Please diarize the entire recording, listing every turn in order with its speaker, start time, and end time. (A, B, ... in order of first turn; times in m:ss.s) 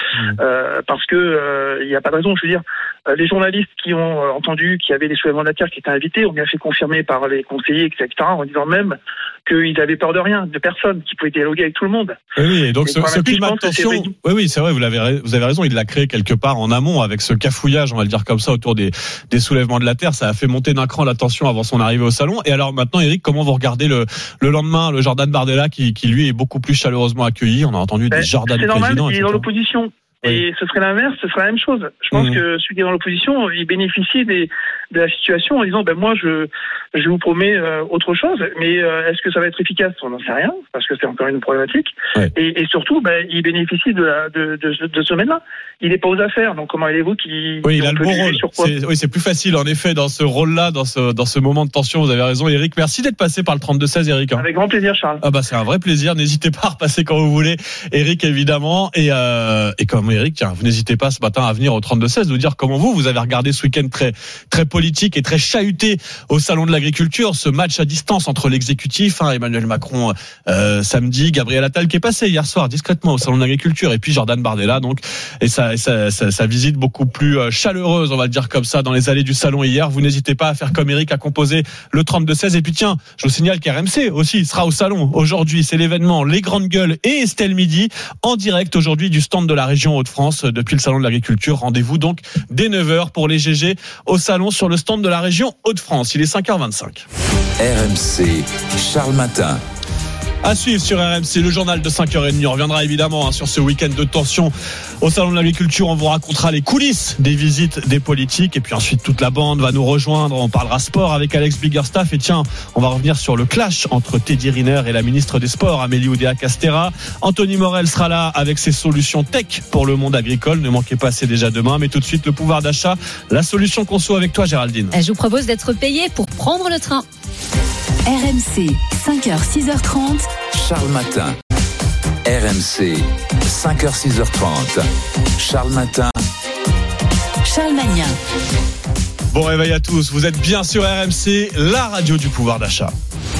0:00.4-0:12.2 A
0:12.4-0:29.5 B
0:12.8-0:14.1 A
0:28.1-0:48.7 A
0:32.1-0:32.4 B
0:47.6-0:54.4 B
0:54.4-0:55.2 A
0:55.2-1:37.0 B
1:37.6-1:39.6 C
1:40.4-2:05.0 B
2:04.9-2:07.0 D
2:08.0-2:10.3 E
2:10.5-2:11.4 C
2:12.2-2:14.8 C
2:15.4-2:16.2 C
2:17.4-2:18.2 E
2:19.3-2:22.9 B